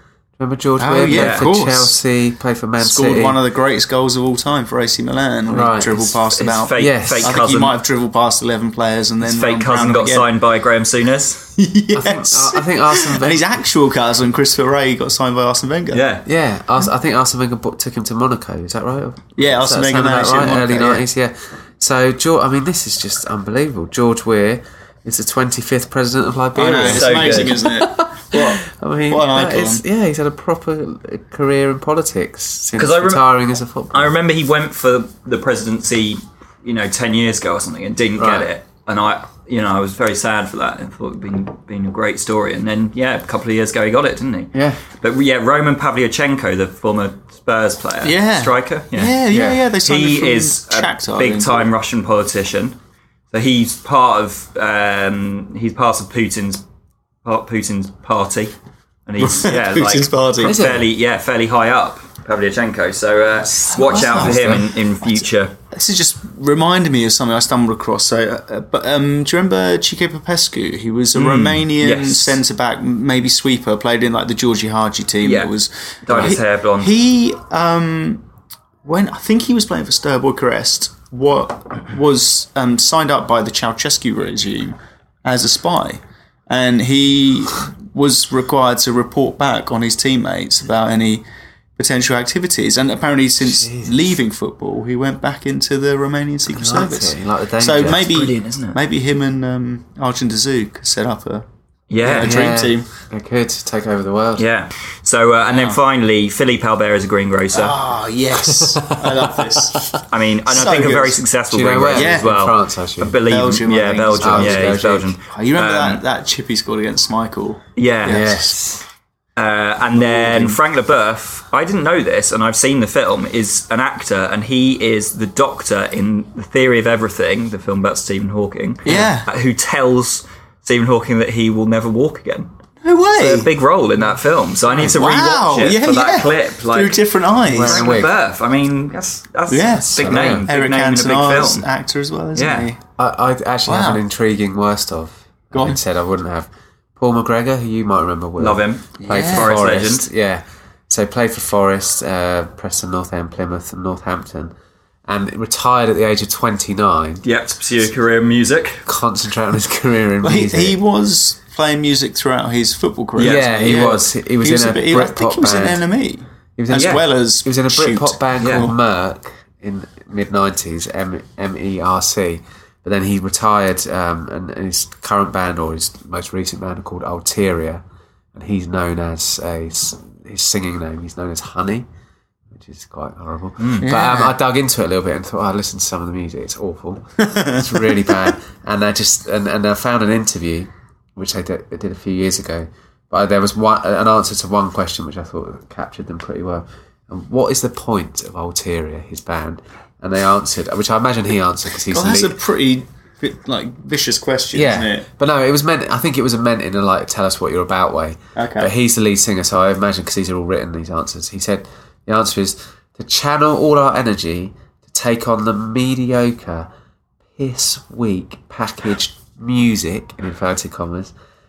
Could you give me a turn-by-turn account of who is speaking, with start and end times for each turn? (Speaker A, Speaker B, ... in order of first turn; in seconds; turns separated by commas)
Speaker A: 0.4-3.4, Speaker B: 0.8-2.0, Speaker C: 1.1-1.5, Speaker B: 2.8-10.3, Speaker A: 5.5-6.1, Speaker C: 6.3-7.8, Speaker A: 6.8-7.4, Speaker C: 9.2-11.5, Speaker B: 11.6-16.0, Speaker A: 11.9-13.4, Speaker C: 15.9-16.3, Speaker A: 16.3-34.2, Speaker B: 19.4-21.0, Speaker B: 26.6-29.8, Speaker C: 26.9-27.6, Speaker C: 32.8-33.4, Speaker C: 33.9-49.2, Speaker A: 38.2-38.5, Speaker A: 44.5-44.8, Speaker B: 48.0-51.7, Speaker A: 49.3-49.6, Speaker C: 49.7-52.8, Speaker C: 53.3-56.6, Speaker C: 57.2-58.5, Speaker C: 59.1-65.5, Speaker B: 59.2-60.6, Speaker A: 60.4-60.9, Speaker B: 63.7-64.6, Speaker A: 63.9-64.7, Speaker B: 65.7-78.2, Speaker C: 71.2-72.4, Speaker C: 75.2-75.5, Speaker C: 76.0-76.9, Speaker B: 78.8-91.2, Speaker B: 91.8-101.5, Speaker A: 93.5-94.0, Speaker A: 96.5-98.1, Speaker C: 97.9-98.8, Speaker C: 101.9-102.3, Speaker B: 102.0-102.9, Speaker A: 102.2-104.5, Speaker C: 104.4-107.8, Speaker B: 105.5-105.8, Speaker B: 107.5-111.2, Speaker A: 108.8-109.2, Speaker A: 109.7-110.0, Speaker C: 110.1-116.0, Speaker A: 111.5-113.2, Speaker B: 111.9-112.3, Speaker B: 113.3-114.8, Speaker A: 114.2-115.1, Speaker B: 115.3-118.5, Speaker C: 117.8-118.4, Speaker A: 118.0-118.8, Speaker C: 119.4-132.5, Speaker B: 120.0-120.6, Speaker B: 128.9-129.3, Speaker B: 132.8-133.5, Speaker C: 133.2-141.7, Speaker B: 134.8-137.9, Speaker A: 137.5-138.1, Speaker B: 139.5-142.8, Speaker A: 140.0-140.5, Speaker C: 142.3-142.7, Speaker A: 143.0-154.5, Speaker B: 143.7-144.0, Speaker B: 145.5-145.8, Speaker C: 148.4-150.1, Speaker B: 149.0-149.6, Speaker A: 155.1-157.2, Speaker C: 157.2-158.8, Speaker A: 158.9-160.8, Speaker B: 160.2-168.7, Speaker C: 163.2-163.4, Speaker A: 163.2-165.8, Speaker A: 166.6-177.8, Speaker C: 166.7-167.0, Speaker C: 168.4-168.7, Speaker A: 178.3-181.9, Speaker A: 182.5-202.4, Speaker C: 183.6-183.9, Speaker B: 183.8-184.3, Speaker B: 187.2-188.2, Speaker B: 201.9-205.1, Speaker A: 204.5-216.7, Speaker B: 208.4-208.7, Speaker A: 217.3-221.1